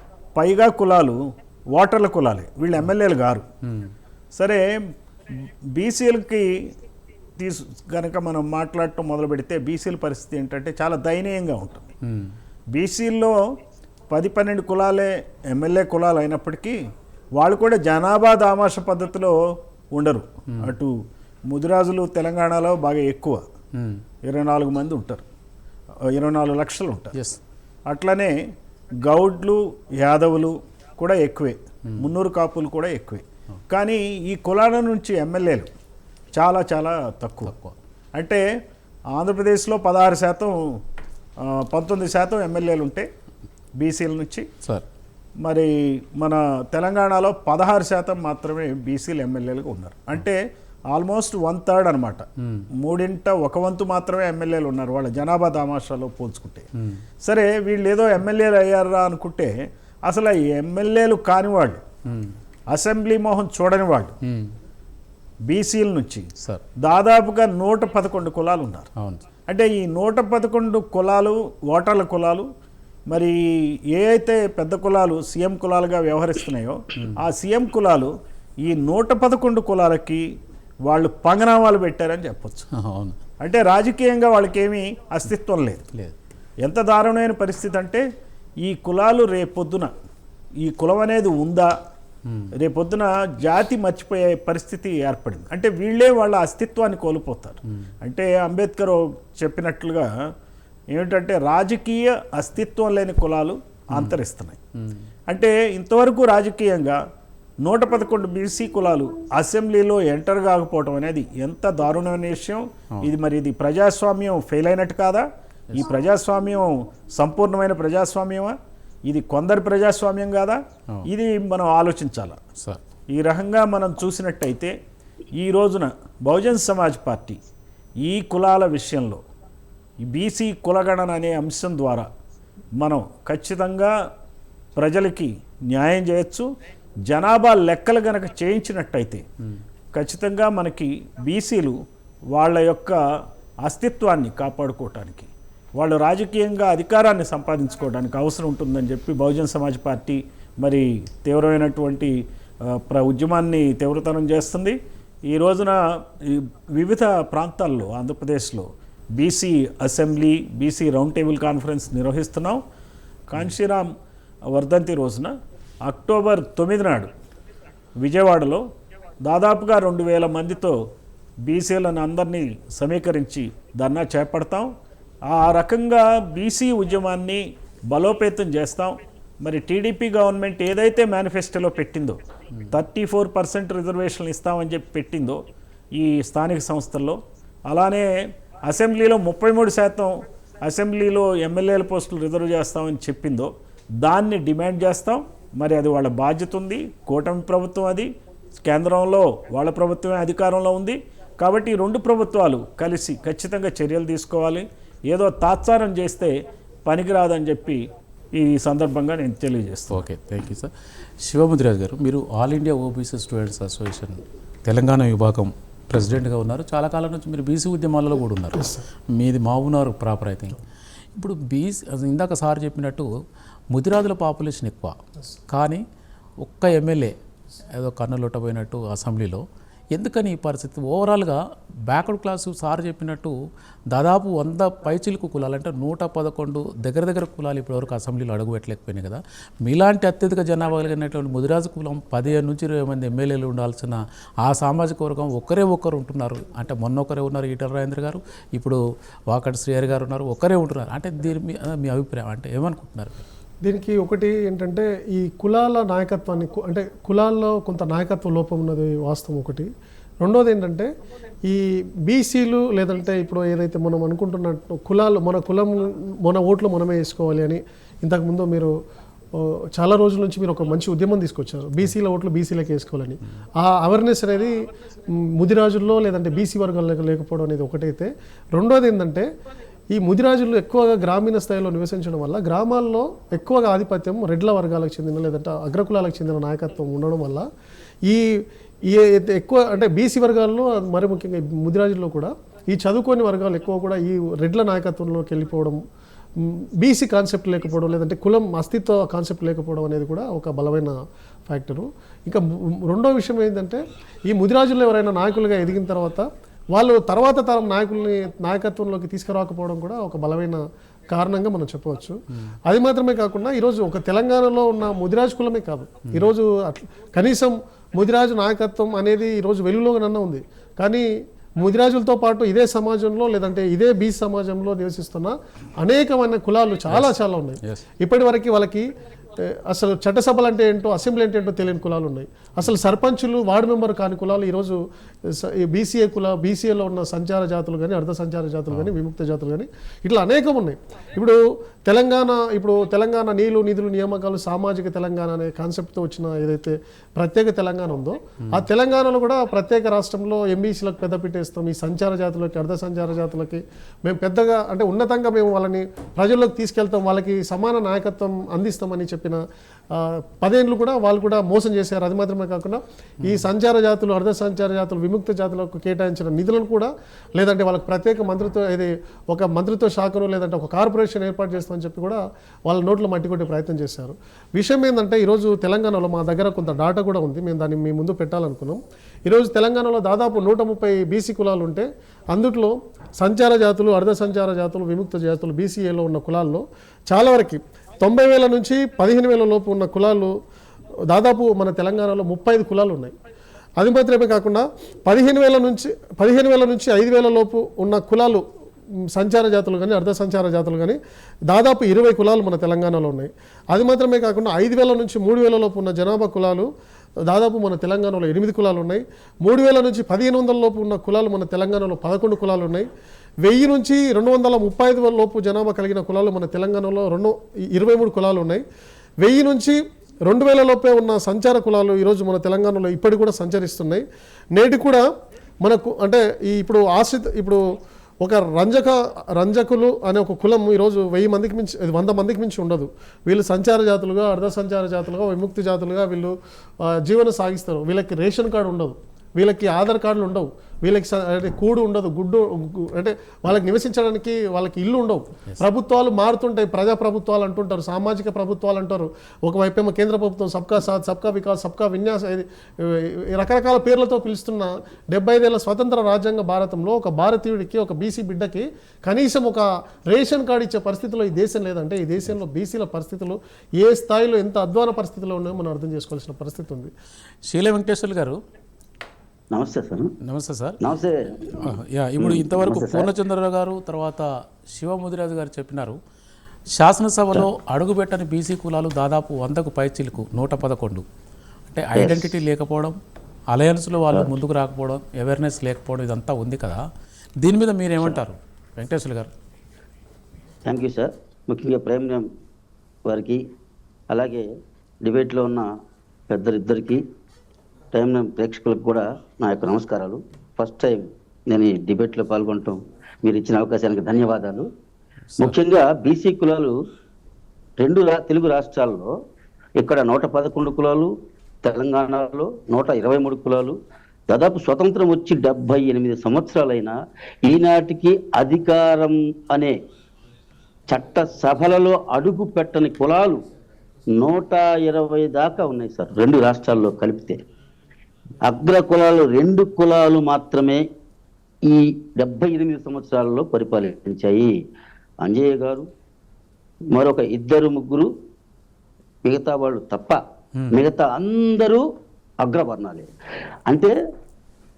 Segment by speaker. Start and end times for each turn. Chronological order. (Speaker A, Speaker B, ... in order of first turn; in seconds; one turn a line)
Speaker A: 0.3-3.5
Speaker B: 3.6-3.9
Speaker A: 4.3-4.7
Speaker A: 5.3-6.7
Speaker A: 7.4-11.9
Speaker B: 12.0-12.3
Speaker A: 12.7-13.6
Speaker A: 14.1-16.8
Speaker A: 17.3-23.4
Speaker B: 23.7-24.0
Speaker A: 24.2-25.2
Speaker A: 26.1-27.1
Speaker B: 27.1-27.4
Speaker A: 27.9-28.4
Speaker A: 29.0-35.7
Speaker A: 36.3-37.5
Speaker B: 37.4-37.7
Speaker A: 38.1-38.4
Speaker A: 39.1-40.8
Speaker A: 41.4-43.1
Speaker A: 43.8-44.5
Speaker A: 45.4-52.3
Speaker B: 52.4-52.7
Speaker A: 52.8-56.7
Speaker B: 56.8-57.0
Speaker A: 57.2-61.8
Speaker B: 62.0-62.3
Speaker A: 62.7-64.2
Speaker B: 64.2-64.5
Speaker A: 65.5-68.9
Speaker B: 69.0-69.2
Speaker A: 69.5-72.5
Speaker A: 73.1-80.3
Speaker A: 80.8-82.7
Speaker B: 82.7-83.2
Speaker A: 83.4-85.8
Speaker A: 86.6-88.0
Speaker A: 88.6-89.9
Speaker A: 90.6-91.7
Speaker B: 92.2-92.5
Speaker A: 92.6-100.1
Speaker B: 97.7-97.9
Speaker A: 100.9-104.6
Speaker B: 103.9-104.2
Speaker B: 104.7-105.0
Speaker A: 105.3-107.0
Speaker A: 107.6-122.4
Speaker B: 122.5-122.8
Speaker A: 123.1-124.7
Speaker A: 125.3-127.4
Speaker A: 128.0-129.2
Speaker A: 130.0-132.1
Speaker A: 132.8-133.9
Speaker A: 134.8-136.5
Speaker A: 137.1-139.2
Speaker A: 139.9-162.6
Speaker A: 163.3-163.9
Speaker A: 164.5-167.1
Speaker A: 168.0-168.6
Speaker A: 169.2-170.8
Speaker A: 171.4-174.7
Speaker A: 175.2-182.2
Speaker A: 182.7-198.1
Speaker A: 198.6-210.0
Speaker B: 209.9-210.7
Speaker B: 211.2-220.6
Speaker B: 221.1-223.1
Speaker B: 223.7-225.0
Speaker B: 225.5-225.8
Speaker B: 226.4-227.1
Speaker B: 227.7-253.2
Speaker C: 253.6-259.7
Speaker C: 260.2-260.9
Speaker C: 261.4-268.7
Speaker C: 269.3-279.3
Speaker C: 279.9-287.4
Speaker C: 288.1-295.8
Speaker C: 296.4-300.9
Speaker C: 301.5-321.1
Speaker B: 316.1-316.3
Speaker C: 321.6-390.3
Speaker B: 348.4-348.6
Speaker C: 391.1-393.1
Speaker C: 393.8-398.4
Speaker C: 399.1-401.0
Speaker C: 401.5-406.7
Speaker C: 407.3-412.9
Speaker C: 413.4-418.6
Speaker C: 419.2-425.1
Speaker C: 425.6-427.6
Speaker C: 428.2-466.9
Speaker B: 467.5-468.4
Speaker D: 469.5-470.1
Speaker B: 470.2-470.8
Speaker D: 470.8-473.1
Speaker B: 471.5-476.0
Speaker B: 476.8-481.0
Speaker B: 481.7-483.0
Speaker D: 481.9-482.3
Speaker B: 483.5-486.9
Speaker B: 487.4-489.3
Speaker D: 490.6-492.3
Speaker D: 493.1-493.4
Speaker D: 494.1-494.5
Speaker D: 495.0-495.7
Speaker D: 496.3-497.0
Speaker D: 497.9-504.7
Speaker D: 505.4-506.8
Speaker D: 507.8-509.1
Speaker D: 509.8-513.8
Speaker D: 514.3-519.8
Speaker D: 520.9-523.4
Speaker D: 524.1-527.4
Speaker D: 528.4-530.8
Speaker D: 531.6-534.6
Speaker D: 535.2-535.9
Speaker D: 536.9-538.1
Speaker D: 539.2-540.2
Speaker B: 540.5-540.8
Speaker D: 540.7-541.8
Speaker D: 542.4-543.1
Speaker D: 543.7-543.9